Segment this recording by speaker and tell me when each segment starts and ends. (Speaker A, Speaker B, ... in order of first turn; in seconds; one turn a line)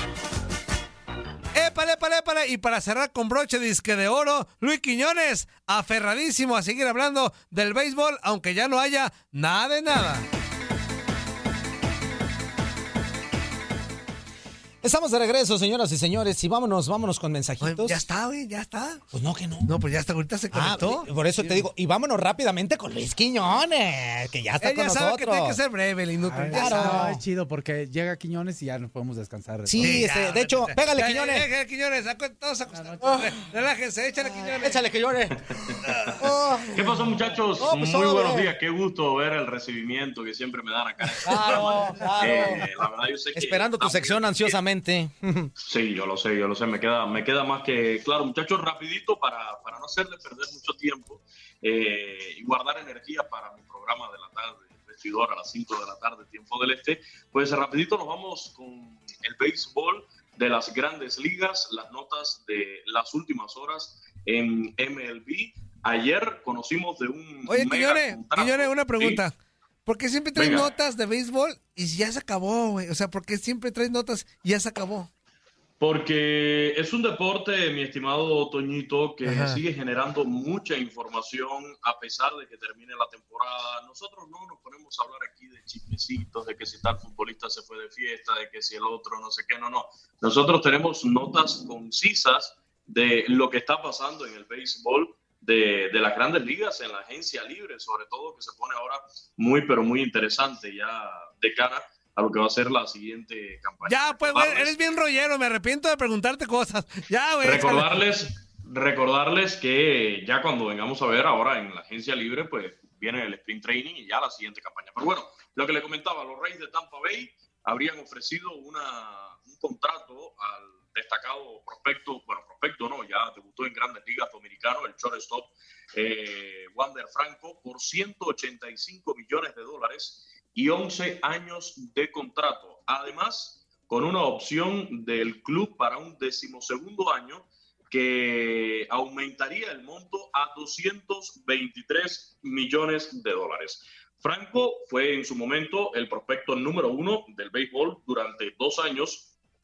Speaker A: 1.5-10.3
Speaker B: 14.8-18.0
Speaker A: 17.6-19.0
Speaker B: 19.1-19.8
Speaker A: 19.6-21.7
Speaker B: 20.5-25.6
Speaker A: 24.6-27.1
Speaker C: 26.2-30.1
Speaker B: 26.5-27.2
Speaker B: 29.6-31.5
Speaker A: 29.8-34.8
Speaker C: 32.8-33.1
Speaker B: 33.0-33.4
Speaker B: 34.3-38.5
Speaker D: 35.4-36.1
Speaker D: 36.7-44.6
Speaker B: 41.2-42.7
Speaker B: 43.3-45.5
Speaker D: 45.6-69.2
Speaker A: 67.5-69.3
Speaker A: 69.9-75.1
Speaker D: 70.3-70.7
Speaker D: 75.8-104.8
Speaker A: 79.2-79.6
Speaker A: 103.9-108.0
Speaker D: 107.4-149.3